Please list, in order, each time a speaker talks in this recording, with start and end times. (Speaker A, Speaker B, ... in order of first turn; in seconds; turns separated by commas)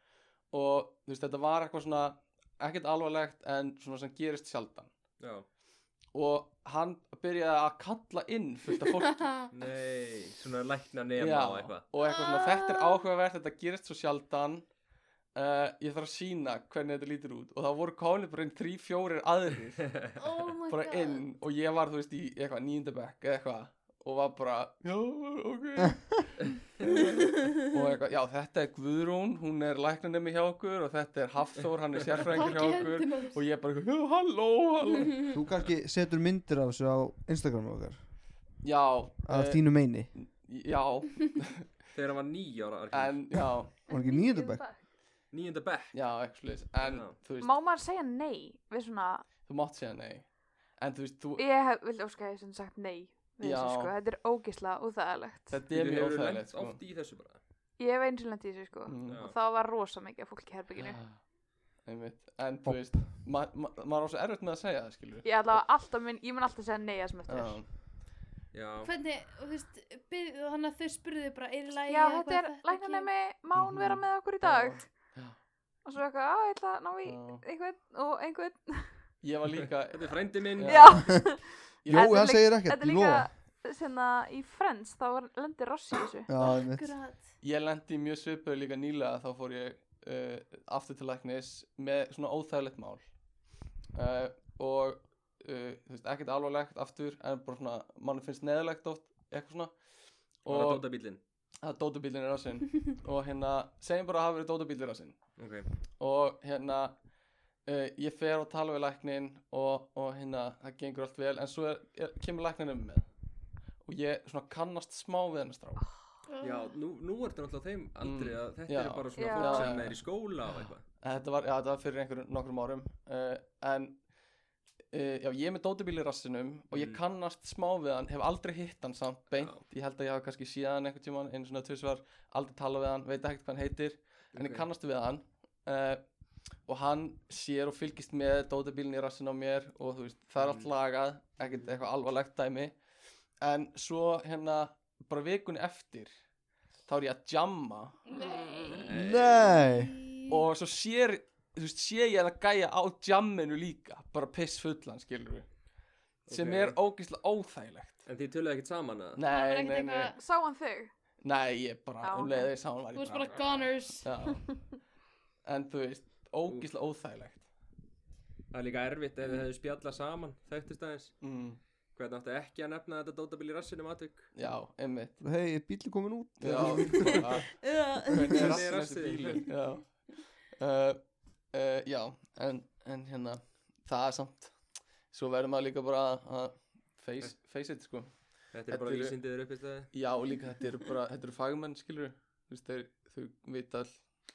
Speaker A: 0.5-4.9, Speaker B: 5.2-5.5, Speaker A: 6.1-9.2, Speaker C: 8.9-9.5, Speaker B: 9.5-11.8, Speaker A: 11.2-14.7, Speaker C: 12.0-13.1, Speaker A: 15.3-20.1, Speaker C: 20.1-21.2, Speaker A: 20.7-35.1, Speaker C: 32.2-33.4, Speaker C: 35.0-35.3, Speaker D: 35.3-38.1, Speaker A: 38.6-41.8, Speaker D: 39.2-40.1, Speaker B: 41.9-43.5, Speaker A: 42.9-43.8, Speaker D: 43.9-44.7, Speaker E: 43.9-44.8, Speaker C: 44.0-44.6, Speaker B: 45.3-46.3, Speaker A: 45.9-47.5, Speaker B: 46.8-47.1, Speaker E: 47.4-49.3, Speaker A: 49.5-51.4, Speaker E: 51.4-55.6, Speaker A: 53.4-53.9, Speaker A: 55.5-56.8, Speaker B: 55.7-57.4, Speaker E: 57.8-61.0, Speaker A: 58.9-59.2, Speaker B: 59.1-59.4, Speaker A: 60.8-61.2, Speaker A: 61.8-65.3, Speaker D: 62.6-63.1, Speaker E: 65.2-67.6, Speaker A: 67.3-67.7, Speaker B: 68.5-68.9, Speaker C: 68.8-73.1, Speaker E: 71.9-75.2, Speaker A: 73.5-75.4, Speaker E: 75.8-79.0, Speaker A: 77.0-77.4, Speaker A: 79.2-82.2, Speaker B: 79.9-81.1, Speaker E: 80.7-86.3, Speaker D: 81.9-83.3, Speaker D: 86.3-87.0, Speaker C: 86.3-87.4, Speaker A: 87.4-93.1, Speaker A: 93.9-99.8, Speaker A: 100.4-100.8, Speaker B: 100.5-101.2, Speaker A: 101.6-105.2, Speaker B: 105.4-105.7, Speaker A: 106.0-107.0, Speaker A: 107.6-113.1, Speaker A: 113.8-115.8, Speaker C: 116.3-116.7, Speaker B: 116.4-120.8, Speaker A: 118.0-120.1, Speaker E: 119.2-119.8, Speaker A: 121.0-124.0, Speaker A: 124.9-142.8, Speaker B: 126.7-127.0, Speaker B: 129.4-129.6, Speaker B: 134.3-134.7, Speaker B: 140.4-140.7, Speaker A: 143.4-146.1, Speaker A: 146.8-148.0, Speaker C: 148.1-148.9, Speaker B: 148.6-149.6, Speaker D: 148.9-150.0, Speaker C: 149.6-150.4, Speaker A: 150.3-155.6, Speaker A: 156.2-158.0, Speaker B: 156.3-156.8, Speaker B: 158.1-159.2, Speaker A: 159.2-160.1, Speaker C: 159.3-160.2, Speaker E: 160.1-160.9, Speaker A: 161.2-163.4, Speaker E: 162.0-162.5, Speaker C: 162.9-164.1, Speaker A: 164.0-164.9, Speaker A: 165.4-167.5, Speaker B: 168.5-171.3, Speaker A: 171.2-171.6, Speaker B: 171.9-174.3, Speaker A: 174.4-175.2, Speaker D: 175.2-177.4, Speaker A: 176.4-189.2, Speaker C: 177.1-178.4, Speaker B: 178.4-179.6, Speaker B: 188.5-189.9, Speaker A: 189.9-194.1